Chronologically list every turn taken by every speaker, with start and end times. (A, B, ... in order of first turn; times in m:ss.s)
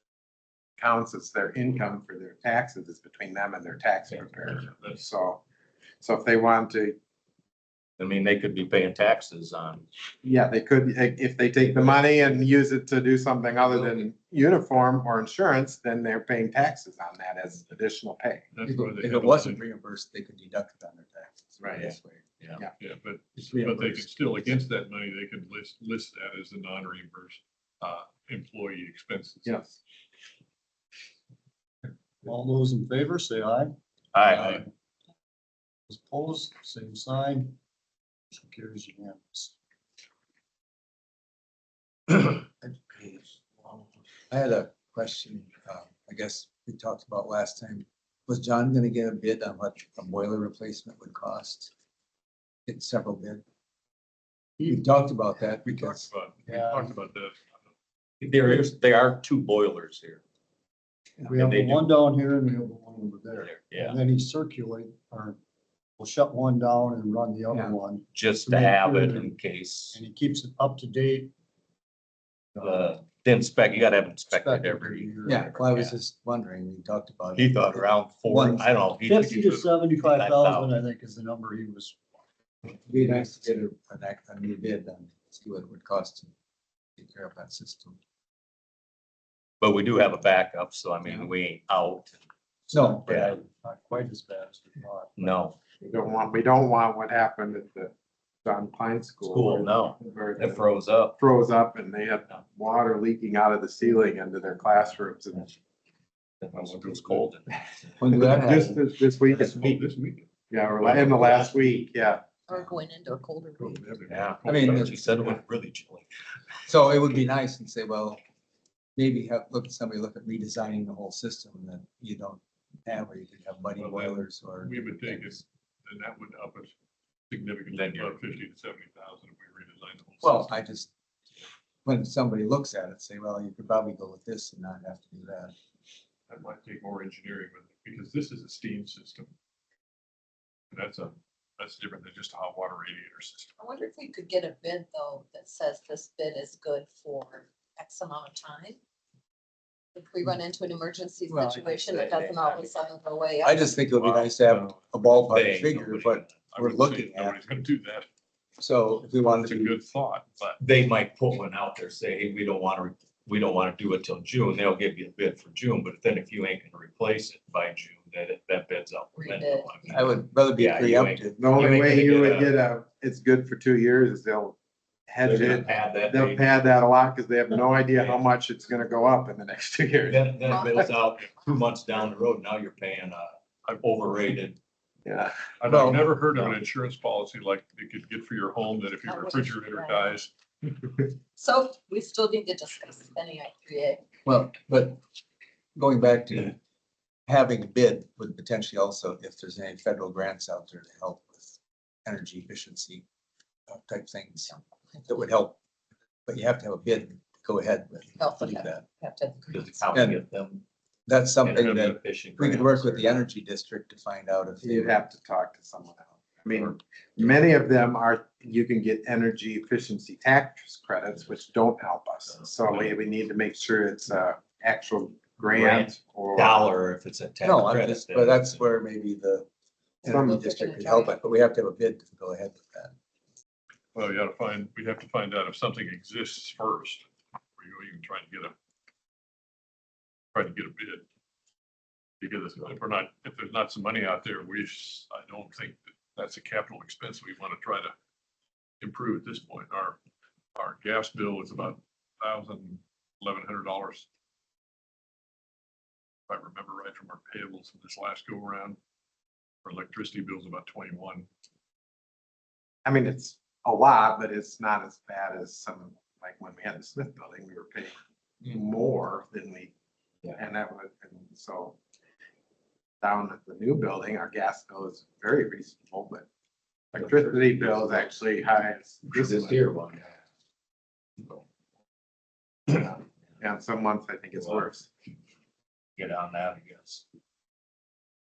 0:00.8-0:05.4 A
0:04.1-0:05.0 B
0:06.0-0:07.0 A
0:08.0-0:09.8 C
0:10.2-0:18.5 A
0:18.5-0:19.6 B
0:18.6-0:22.2 D
0:21.6-0:21.9 A
0:21.8-0:22.6 C
0:22.8-0:29.6 B
0:23.4-0:24.4 D
0:29.4-0:29.8 A
0:32.2-0:33.7 E
0:34.1-0:34.6 C
0:35.9-0:37.6 E
0:38.3-0:39.5 E
0:44.3-0:51.7 D
0:52.7-0:53.4 D
0:54.6-0:56.1 D
0:55.7-0:57.5 B
0:56.5-0:56.8 E
0:58.2-1:00.2 C
1:01.3-1:01.9 C
1:01.3-1:05.4 E
1:03.4-1:04.0 C
1:06.0-1:09.2 E
1:07.5-1:07.8 D
1:08.1-1:10.0 C
1:09.9-1:11.3 E
1:12.6-1:16.0 C
1:14.4-1:15.4 E
1:14.7-1:15.1 F
1:15.2-1:18.7 D
1:17.4-1:20.8 C
1:19.1-1:22.0 E
1:19.4-1:19.7 B
1:22.9-1:26.3 D
1:27.0-1:28.0 D
1:29.6-1:32.2 C
1:32.7-1:33.4 D
1:32.8-1:35.3 E
1:33.1-1:33.4 C
1:35.2-1:35.6 C
1:35.8-1:37.9 A
1:38.4-1:40.6 A
1:39.3-1:41.2 C
1:41.2-1:45.6 A
1:46.4-1:47.6 C
1:46.5-1:47.3 B
1:48.0-1:48.8 D
1:48.1-1:49.8 A
1:49.3-1:51.6 B
1:50.5-1:52.2 A
1:52.5-1:53.9 F
1:53.6-1:55.4 B
1:54.1-1:56.1 C
1:54.4-1:55.0 D
1:56.7-1:58.2 D
1:59.0-2:05.4 D
2:03.8-2:06.7 B
2:07.3-2:10.5 B
2:07.7-2:08.2 C
2:10.2-2:10.9 D
2:11.8-2:15.5 D
2:16.3-2:19.3 B
2:20.7-2:23.5 B
2:23.6-2:28.8 F
2:30.0-2:33.8 F
2:31.3-2:31.6 D
2:31.5-2:32.8 C
2:33.4-2:37.5 D
2:33.8-2:35.3 B
2:35.3-2:36.4 C
2:36.5-2:38.1 B
2:38.6-2:39.8 D
2:39.4-2:40.6 B
2:40.6-2:52.5 C
2:49.2-2:50.1 F
2:49.9-2:52.0 D
2:51.4-2:54.6 A
2:55.1-3:00.9 A
2:55.2-2:56.8 C
2:58.0-2:58.2 C
3:00.1-3:04.6 C
3:00.5-3:00.9 F
3:05.0-3:05.3 A
3:05.6-3:10.3 B
3:05.7-3:06.1 D
3:09.0-3:10.2 F
3:11.4-3:14.0 F
3:14.2-3:15.0 D
3:15.8-3:16.6 D
3:17.3-3:23.0 D
3:23.7-3:24.6 D
3:25.1-3:25.6 D
3:26.3-3:28.8 D
3:28.2-3:29.8 F
3:29.5-3:30.6 C
3:29.9-3:30.2 D
3:31.1-3:35.0 D
3:31.4-3:33.2 C
3:31.6-3:32.0 B
3:34.6-3:46.7 A
3:42.7-3:42.9 C
3:45.5-3:48.6 C
3:47.4-3:49.5 D
3:50.0-3:52.9 D
3:50.1-3:50.4 A
3:50.1-3:51.2 F
3:53.9-3:57.1 B
3:57.6-3:58.6 B
4:00.3-4:01.0 B
4:02.2-4:07.9 B
4:08.8-4:10.0 B
4:10.6-4:14.1 B
4:16.3-4:18.8 B
4:19.6-4:21.3 B
4:22.8-4:29.7 A
4:30.4-4:31.8 A
4:33.0-4:36.3 A
4:36.9-4:39.7 A
4:37.1-4:37.6 C
4:39.1-4:40.2 C
4:42.7-4:44.9 A
4:44.4-4:44.7 C
4:46.0-4:47.0 C